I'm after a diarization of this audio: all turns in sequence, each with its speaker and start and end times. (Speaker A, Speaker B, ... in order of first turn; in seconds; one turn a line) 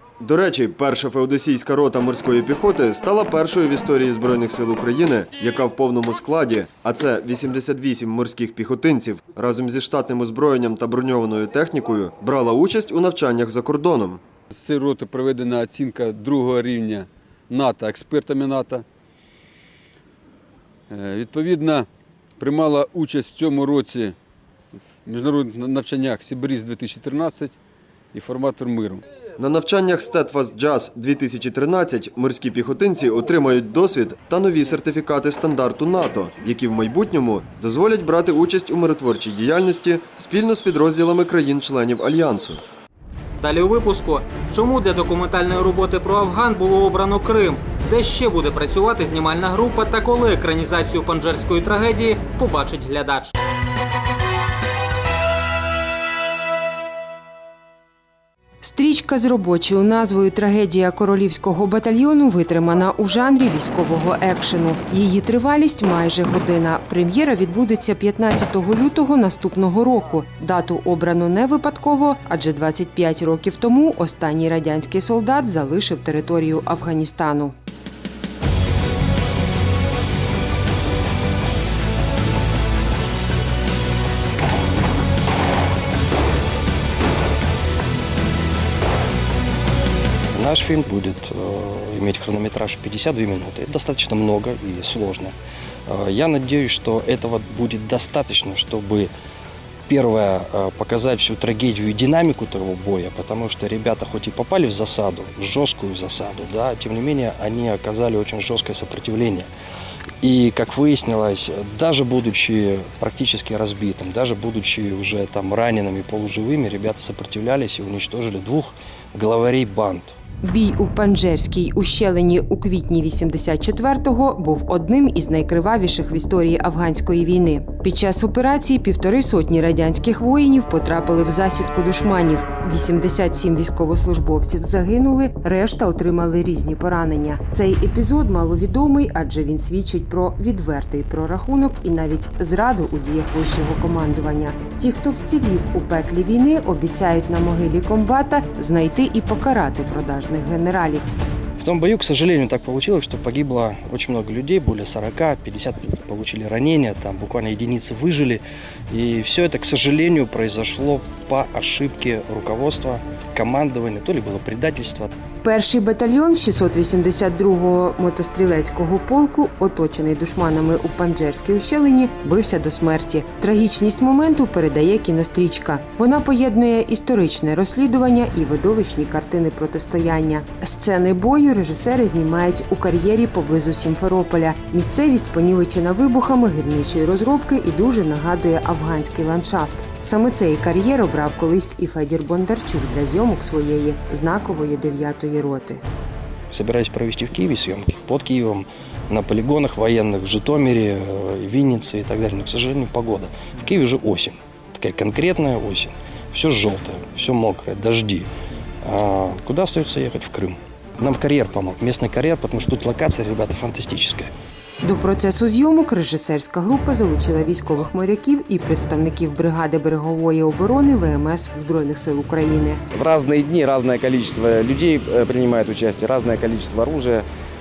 Speaker A: 0.2-14.2
Speaker B: 14.5-18.9
Speaker B: 20.9-21.9
Speaker B: 22.4-24.1
Speaker B: 25.0-27.6
Speaker B: 28.1-29.0
Speaker A: 29.4-42.6
Speaker C: 43.4-53.3
Speaker D: 58.6-77.5
Speaker E: 90.3-95.3
Speaker E: 95.9-99.1
Speaker E: 99.9-109.5
Speaker E: 110.2-120.2
Speaker D: 120.4-151.1
Speaker E: 151.6-165.1
Speaker D: 165.4-195.8
Speaker E: 196.5-208.3
Speaker E: 208.8-214.3
Speaker D: 214.8-222.8
Speaker F: 222.9-227.3